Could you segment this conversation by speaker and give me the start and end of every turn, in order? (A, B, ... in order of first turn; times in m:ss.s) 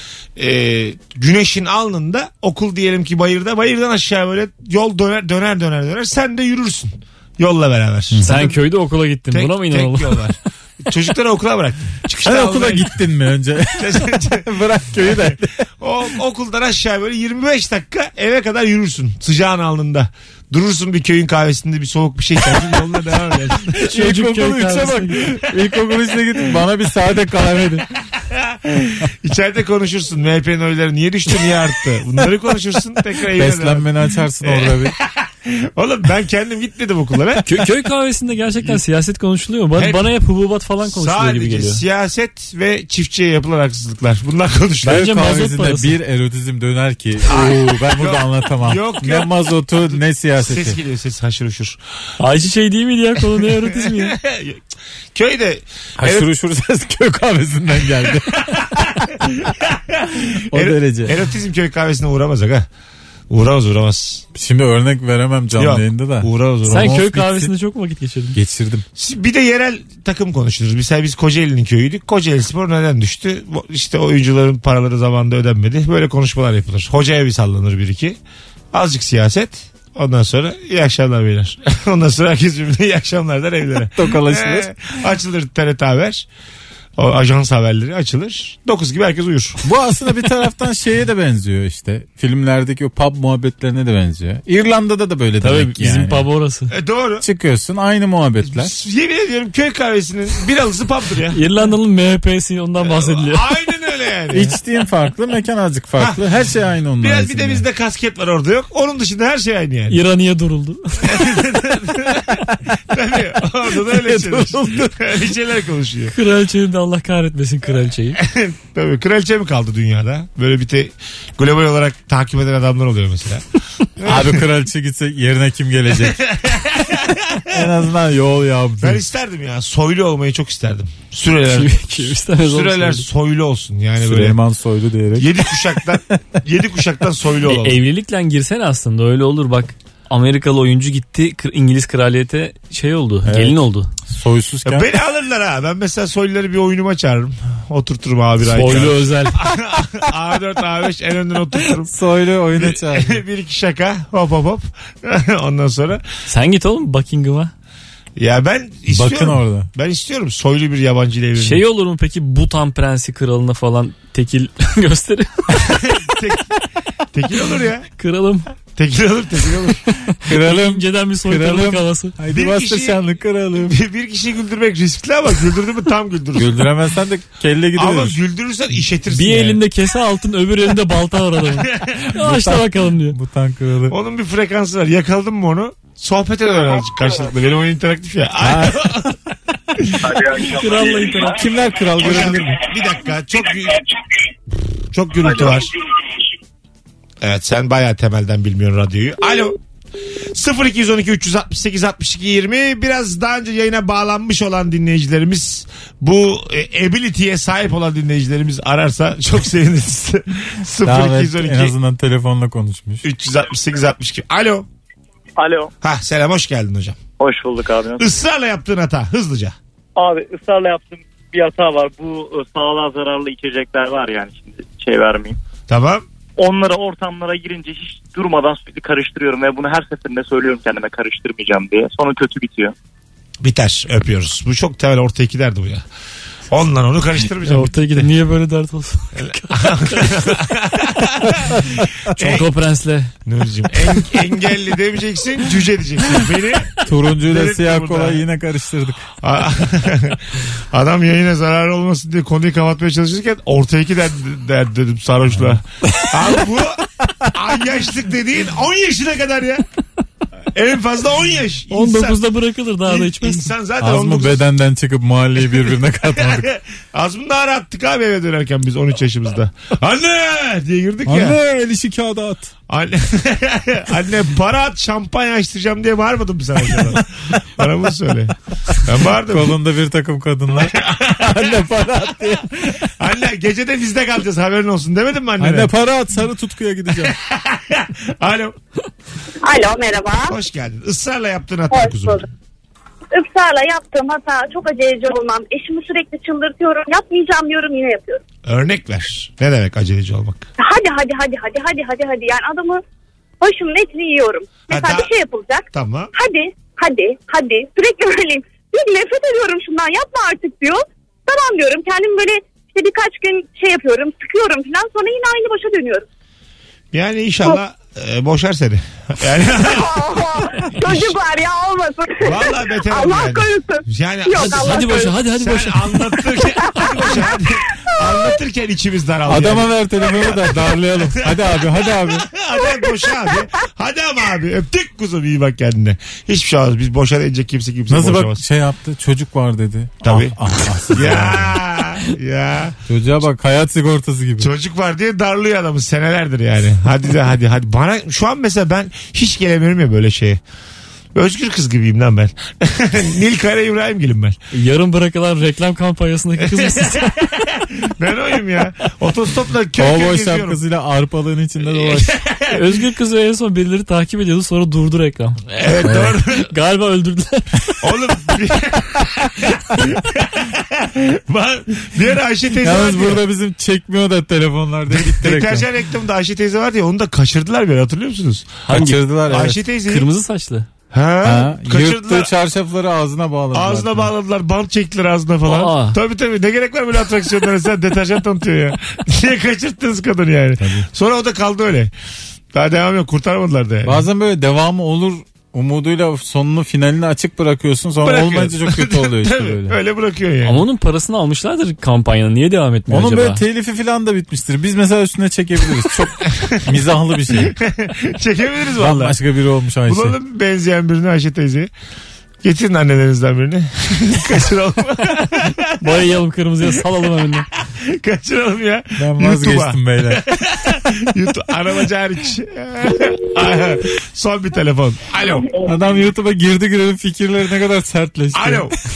0:00.4-0:08.6 A
0:08.1-0:08.5 B
0:08.2-0:10.2 C
0:09.3-0:12.9 A
0:12.2-0:15.6 B
0:13.8-0:23.9 A
0:23.8-0:27.9 B
0:23.8-0:25.3 C
0:28.3-0:33.9 A
0:33.3-0:35.0 B
0:34.4-0:37.5 A
0:37.4-0:41.8 C
0:39.8-0:40.1 A
0:40.8-0:45.1 A
0:44.8-0:45.9 C
0:44.8-0:50.8 B
0:47.3-0:49.3 A
0:50.4-0:51.8 A
0:52.2-0:54.2 C
0:53.8-0:54.6 A
0:55.2-0:56.3 A
0:56.0-0:59.5 B
0:58.5-1:02.7 A
1:00.5-1:01.2 B
1:03.3-1:04.2 A
1:04.4-1:07.5 B
1:05.6-1:07.0 A
1:06.7-1:08.4 C
1:08.4-1:08.8 B
1:09.0-1:18.2 A
1:18.7-1:26.3 A
1:24.0-1:24.7 B
1:27.0-1:29.6 A
1:29.6-1:36.2 B
1:35.4-1:36.7 C
1:36.7-1:37.3 A
1:37.2-1:38.7 B
1:38.4-1:41.4 A
1:41.3-1:43.4 C
1:42.8-1:44.6 A
1:44.3-1:47.6 B
1:47.0-1:50.0 A
1:49.9-1:51.4 C
1:51.1-1:56.2 A
1:53.7-1:55.2 B
1:56.1-1:58.2 C
1:58.2-2:03.4 A
2:04.0-2:04.4 A
2:04.0-2:06.2 B
2:06.0-2:07.6 A
2:07.5-2:09.0 B
2:08.8-2:14.4 A
2:11.4-2:13.0 C
2:14.0-2:15.3 B
2:15.2-2:17.8 A
2:17.5-2:23.9 C
2:23.2-2:24.9 B
2:24.6-2:31.9 A
2:28.4-2:29.4 C
2:31.9-2:33.2 B
2:32.5-2:36.0 A
2:36.3-2:37.5 C
2:38.2-2:41.6 A
2:38.9-2:39.7 B
2:41.4-2:46.0 C
2:45.6-2:46.6 A
2:47.1-2:47.9 A
2:48.0-2:48.5 C
2:48.8-2:49.8 A
2:49.9-2:52.1 C
2:50.3-2:53.8 B
2:52.3-2:53.1 A
2:53.6-2:56.6 A
2:56.4-2:58.2 B
2:57.8-2:59.6 A
2:59.1-3:03.2 C
3:01.6-3:02.1 A
3:02.1-3:04.0 B
3:03.9-3:09.2 A
3:08.4-3:09.0 B
3:09.8-3:10.1 B
3:09.8-3:10.2 A
3:10.4-3:11.5 C
3:11.2-3:12.7 B
3:12.0-3:14.0 A
3:14.9-3:15.8 A
3:17.2-3:19.6 A
3:20.3-3:31.7 A
3:30.8-3:33.0 B
3:33.0-3:34.7 A
3:35.4-3:35.7 D
3:35.8-3:37.0 A
3:37.2-3:38.1 D
3:38.0-3:39.6 A
3:40.0-3:45.4 D
3:45.7-3:46.0 A
3:46.4-3:52.8 D
3:53.4-3:55.8 A
3:56.5-3:58.1 A
3:57.4-4:00.4 C
3:59.2-4:02.5 A
4:02.1-4:03.1 C
4:03.2-4:08.2 A
4:06.8-4:09.1 B
4:09.2-4:19.6 A
4:15.3-4:15.6 B
4:20.5-4:22.2 A
4:21.7-4:23.5 C
4:22.8-4:24.4 A
4:23.8-4:26.5 B
4:26.1-4:31.4 A
4:31.1-4:32.5 B
4:32.7-4:39.6 A
4:39.2-4:42.7 B
4:40.6-4:41.6 A
4:42.6-4:45.7 A
4:45.4-4:47.2 B
4:47.0-4:48.6 A
4:49.4-4:50.4 E
4:50.3-4:52.3 A
4:51.7-4:52.2 E
4:53.1-4:58.2 E
4:58.5-5:00.5 A
5:00.6-5:02.8 E
5:03.4-5:16.0 E
5:04.7-5:05.1 A
5:05.7-5:06.1 A
5:16.9-5:21.2 A
5:19.4-5:25.2 E
5:22.2-5:38.4 A
5:24.4-5:26.0 C
5:26.4-5:27.4 E
5:28.0-5:28.4 E
5:29.3-5:32.3 B
5:32.6-5:33.1 E
5:37.9-5:41.6 B
5:40.0-5:42.8 A
5:42.9-5:44.5 B
5:44.4-5:50.4 A
5:51.2-5:54.4 A
5:54.5-5:57.4 C
5:56.4-6:00.6 A
5:59.8-6:02.2 B
6:01.7-6:02.7 A
6:02.5-6:05.4 C
6:05.5-6:06.5 A
6:05.8-6:06.2 B
6:06.4-6:07.8 C
6:07.8-6:13.2 A
6:12.6-6:15.7 B
6:14.9-6:20.1 A
6:18.7-6:19.0 C
6:18.7-6:19.6 B
6:19.9-6:20.7 C
6:20.9-6:22.3 A
6:21.2-6:24.1 B
6:23.5-6:31.9 A
6:25.5-6:26.0 C
6:30.6-6:30.9 B
6:32.5-6:34.0 A
6:33.8-6:39.8 B
6:38.0-6:40.6 A
6:40.4-6:43.4 C
6:42.9-6:47.6 B
6:47.6-6:49.2 A
6:48.8-6:50.2 B
6:49.9-6:51.7 A
6:52.4-6:55.8 A
6:55.8-6:57.5 C
6:57.8-7:05.6 A
6:59.0-7:00.2 B
7:05.6-7:08.7 B
7:08.3-7:08.8 A